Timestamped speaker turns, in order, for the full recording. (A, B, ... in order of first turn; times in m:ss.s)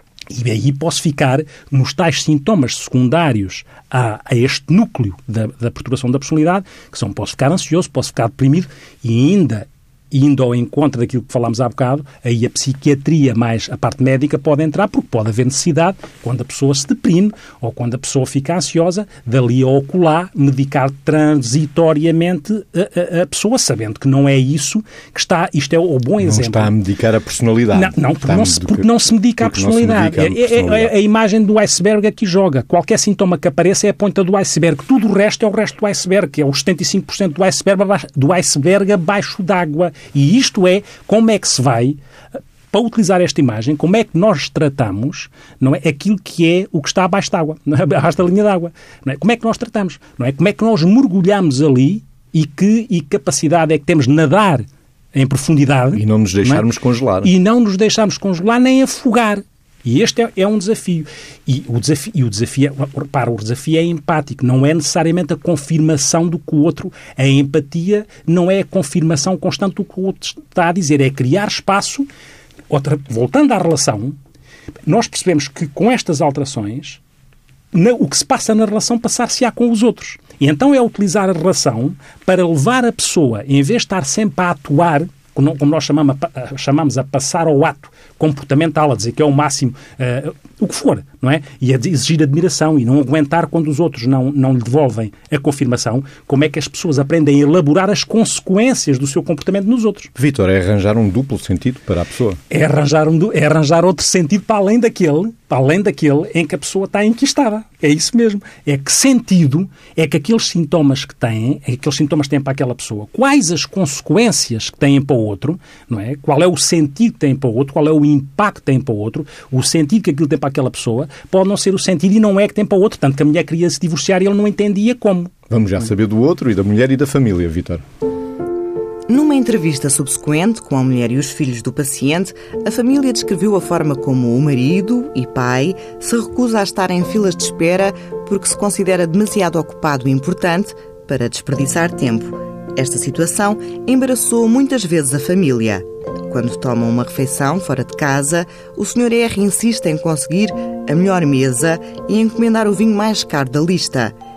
0:00.3-0:26.7 A
0:26.2-0:30.9 B
0:27.7-0:42.0 A
0:42.7-0:56.7 A
0:55.9-0:57.3 B
0:57.2-1:12.1 A
1:12.7-1:14.2 A
1:14.8-1:17.0 A
1:17.7-1:40.1 A
1:40.2-1:42.4 B
1:42.5-2:05.3 A
2:05.5-2:07.8 B
2:09.1-2:34.1 C